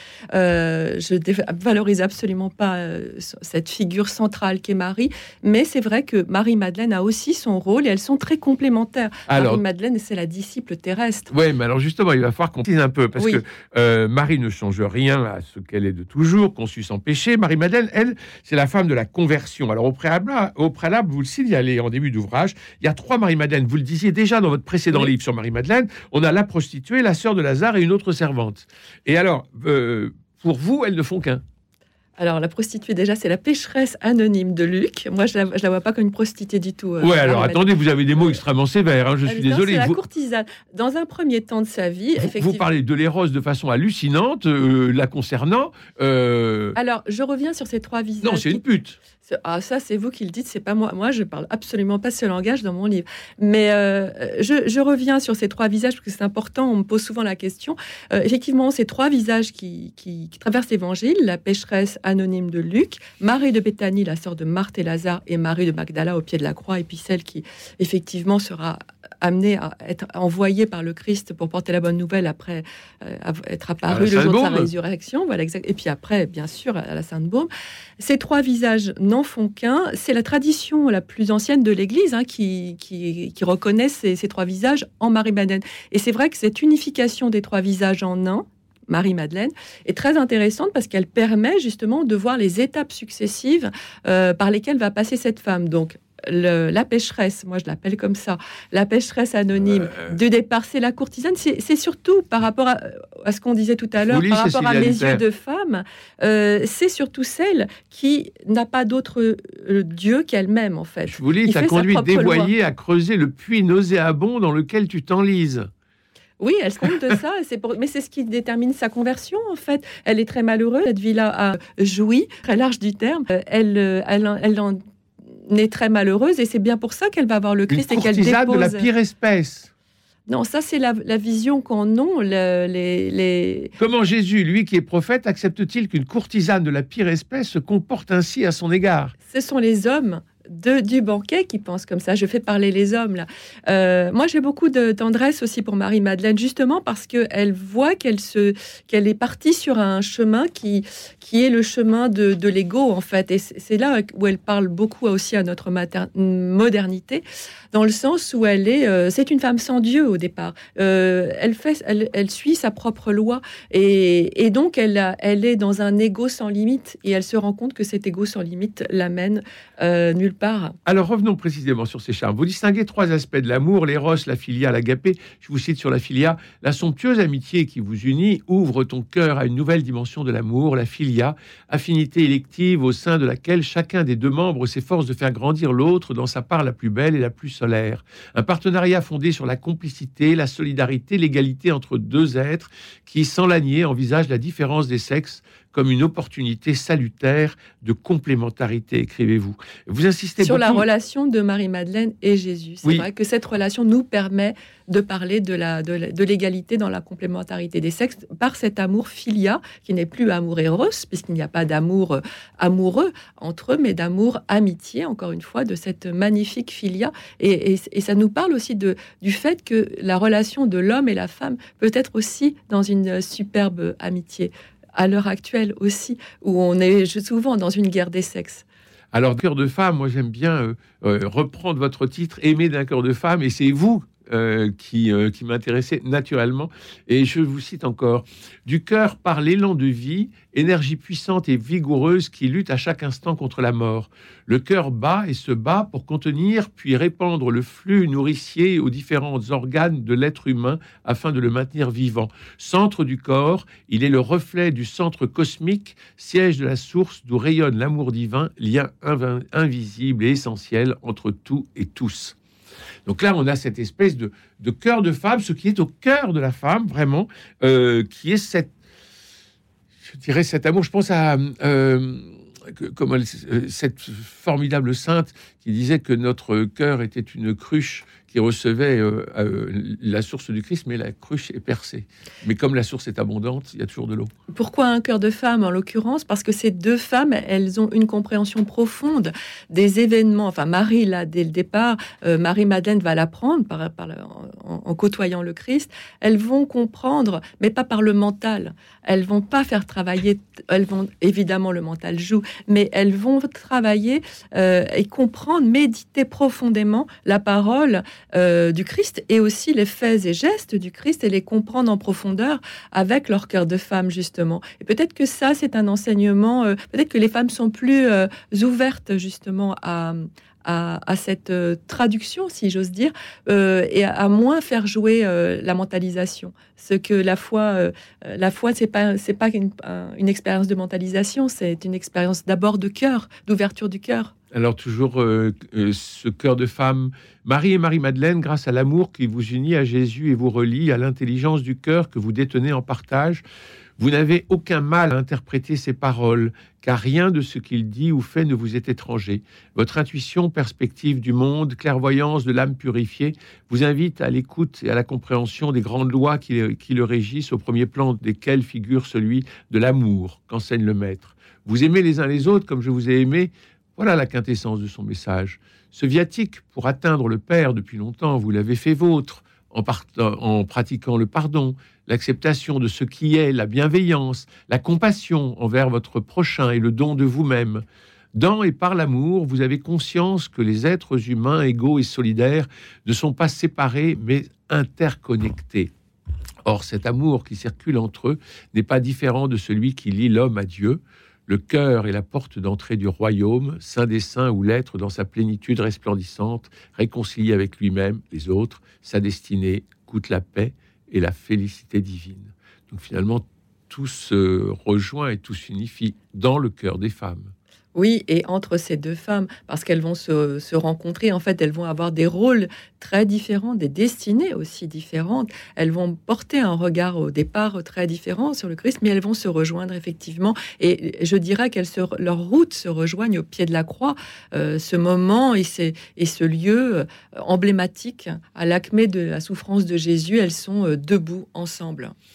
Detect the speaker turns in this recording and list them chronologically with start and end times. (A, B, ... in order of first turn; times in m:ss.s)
0:00.3-0:11.3 A
0:09.3-0:09.6 B
0:11.3-0:31.4 B
0:13.2-0:13.4 A
0:32.2-0:37.7 A
0:37.0-0:40.0 B
0:39.2-0:42.6 A
0:42.2-0:46.8 B
0:46.8-0:48.6 A
0:48.2-0:49.0 B
0:49.2-1:52.5 A
1:13.9-1:14.7 B
1:39.9-1:40.1 B
1:44.1-1:45.2 B
1:51.1-1:55.7 B
1:56.4-2:04.8 A
2:05.5-2:08.9 A
2:07.7-2:09.7 B
2:10.3-2:13.7 A
2:13.8-2:19.1 B
2:19.3-2:50.8 A
2:50.8-3:20.8 B
3:20.4-3:48.6 A
3:49.1-4:22.4 B
4:23.0-4:28.7 B
4:30.0-4:44.3 B
4:44.5-5:34.3 A
5:34.5-5:43.4 B
5:44.0-6:25.9 B
6:26.6-6:47.5 B
6:47.9-7:12.1 A